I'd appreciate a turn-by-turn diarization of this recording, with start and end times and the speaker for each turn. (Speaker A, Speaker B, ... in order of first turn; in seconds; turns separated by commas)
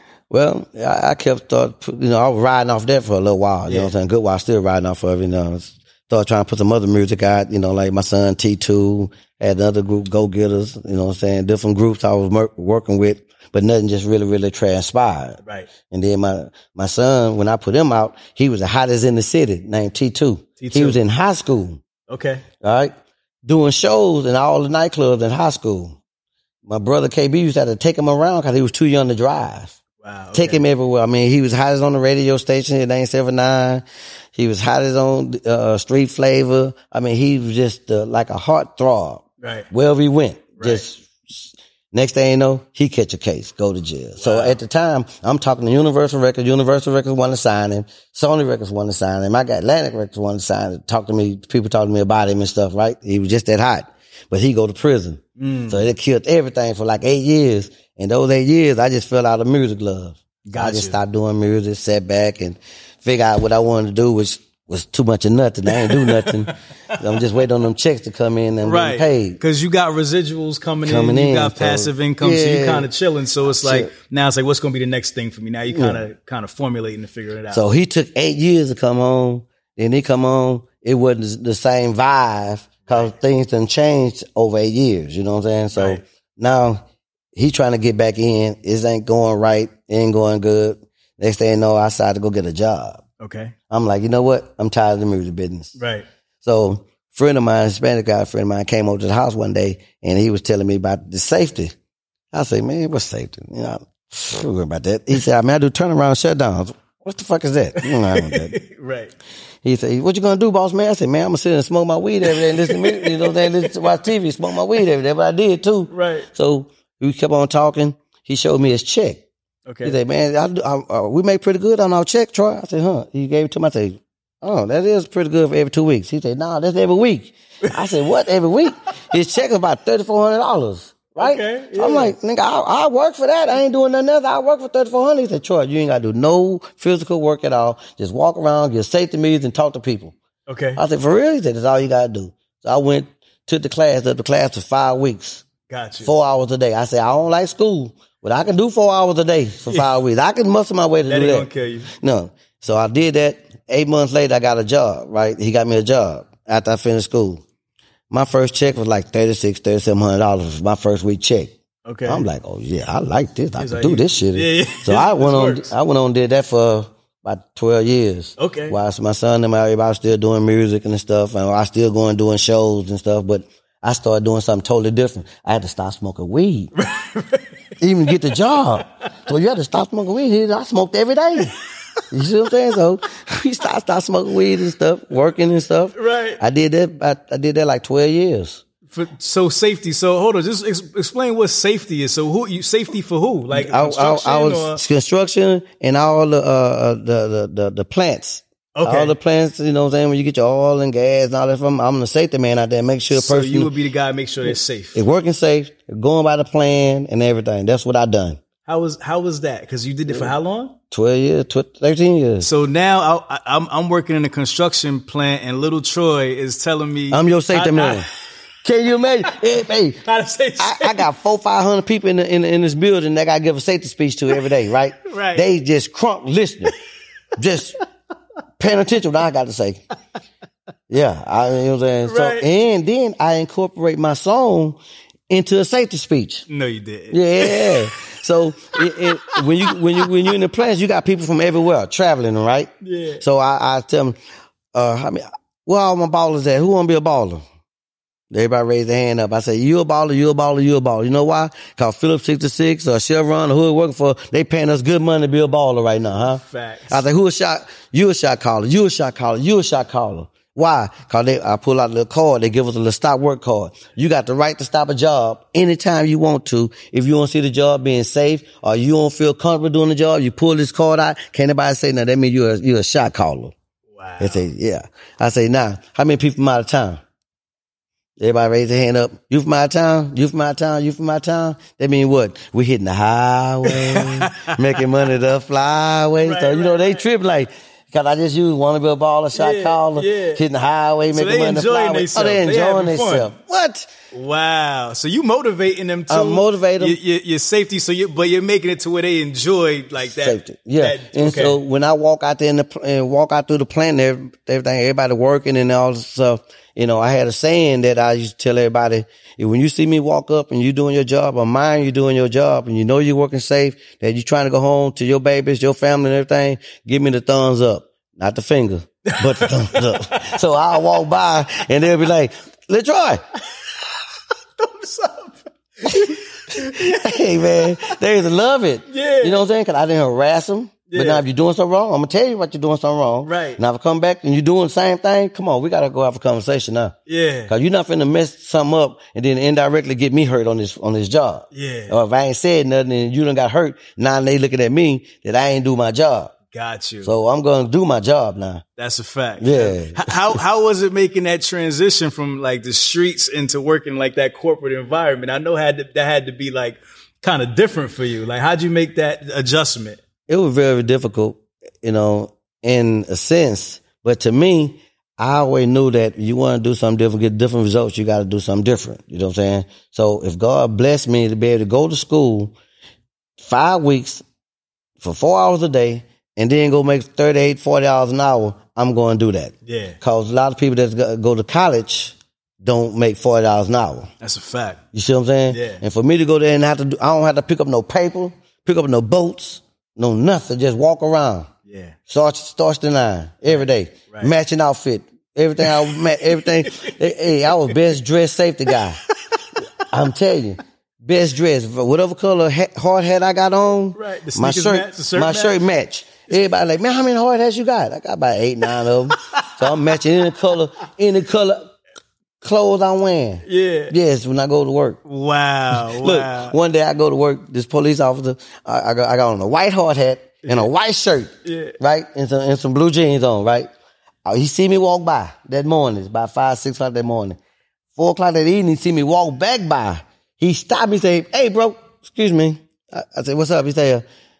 Speaker A: 0.3-21.8, Speaker B: 3.7-3.9, Speaker B: 15.4-15.7, Speaker B: 20.6-21.0, Speaker B: 22.1-22.4, Speaker A: 22.6-22.9, Speaker A: 23.4-26.0, Speaker A: 26.6-29.8, Speaker B: 30.0-30.6, Speaker A: 30.3-33.8, Speaker A: 34.3-69.4, Speaker B: 39.4-39.7, Speaker B: 40.6-40.8, Speaker B: 44.2-44.6, Speaker B: 55.4-55.9, Speaker B: 60.5-61.0, Speaker B: 65.7-67.0, Speaker B: 68.6-77.6, Speaker A: 70.8-72.9, Speaker A: 73.5-73.9, Speaker A: 75.7-76.0, Speaker A: 77.5-86.8, Speaker B: 82.8-83.2, Speaker B: 85.7-86.0, Speaker A: 87.3-93.0, Speaker B: 93.2-93.5, Speaker A: 93.7-95.8, Speaker B: 95.8-96.0, Speaker A: 96.4-101.7, Speaker A: 102.3-108.6, Speaker B: 107.8-109.1, Speaker A: 109.6-119.2, Speaker B: 112.2-114.0, Speaker B: 115.9-116.3, Speaker B: 119.7-120.0, Speaker A: 119.8-140.1, Speaker B: 131.2-132.1, Speaker B: 140.5-140.8, Speaker A: 140.8-145.4, Speaker B: 145.7-146.1, Speaker A: 146.0-157.4, Speaker B: 151.1-151.9, Speaker A: 158.1-161.5, Speaker B: 161.8-162.3, Speaker A: 162.1-176.7, Speaker B: 163.6-165.7, Speaker B: 168.4-168.8, Speaker B: 176.8-177.5, Speaker A: 177.8-181.5, Speaker A: 182.1-188.6, Speaker B: 185.9-186.4, Speaker B: 188.9-194.8, Speaker A: 193.5-203.7, Speaker B: 198.8-199.1, Speaker B: 203.1-205.0, Speaker A: 204.5-208.4, Speaker B: 208.7-210.8, Speaker A: 210.9-212.5, Speaker B: 212.4-218.0, Speaker A: 217.1-218.1, Speaker A: 218.6-220.0, Speaker B: 220.0-221.1, Speaker A: 220.6-226.7, Speaker B: 225.1-225.5, Speaker A: 227.3-227.8, Speaker A: 228.6-229.8, Speaker A: 230.9-234.8, Speaker B: 232.0-232.5, Speaker A: 235.3-236.4, Speaker B: 236.5-237.9, Speaker A: 237.1-244.2, Speaker B: 238.7-240.1, Speaker B: 242.8-243.2, Speaker A: 244.7-247.4, Speaker A: 248.3-273.5, Speaker B: 256.2-257.0, Speaker B: 273.9-274.5, Speaker A: 274.2-277.0, Speaker A: 278.2-293.9, Speaker B: 283.6-284.9, Speaker B: 286.2-287.1, Speaker B: 289.3-290.4, Speaker B: 291.1-293.3, Speaker B: 294.1-301.6, Speaker A: 296.1-297.0, Speaker A: 300.1-323.2, Speaker B: 319.1-320.4, Speaker B: 324.6-327.9, Speaker A: 325.9-336.9, Speaker B: 328.9-329.4, Speaker B: 330.9-331.2, Speaker B: 333.2-333.6, Speaker B: 337.1-337.5, Speaker A: 337.5-346.3, Speaker B: 341.5-342.0, Speaker B: 346.5-347.1, Speaker A: 347.0-348.6, Speaker B: 348.8-360.0, Speaker A: 349.4-350.4, Speaker A: 360.3-372.5, Speaker A: 373.4-374.2, Speaker A: 375.0-384.1, Speaker B: 379.6-380.0, Speaker B: 384.2-384.8, Speaker A: 384.9-391.5, Speaker B: 385.5-385.8, Speaker B: 391.6-391.9, Speaker A: 392.1-399.0, Speaker B: 393.5-394.3, Speaker B: 395.6-396.9, Speaker A: 399.9-411.7, Speaker B: 403.9-405.6, Speaker B: 409.1-409.7, Speaker A: 412.4-415.0, Speaker B: 413.4-413.9, Speaker B: 415.1-416.5, Speaker A: 415.7-423.7, Speaker B: 421.4-421.8, Speaker A: 424.2-427.4, Speaker A: 427.9-434.0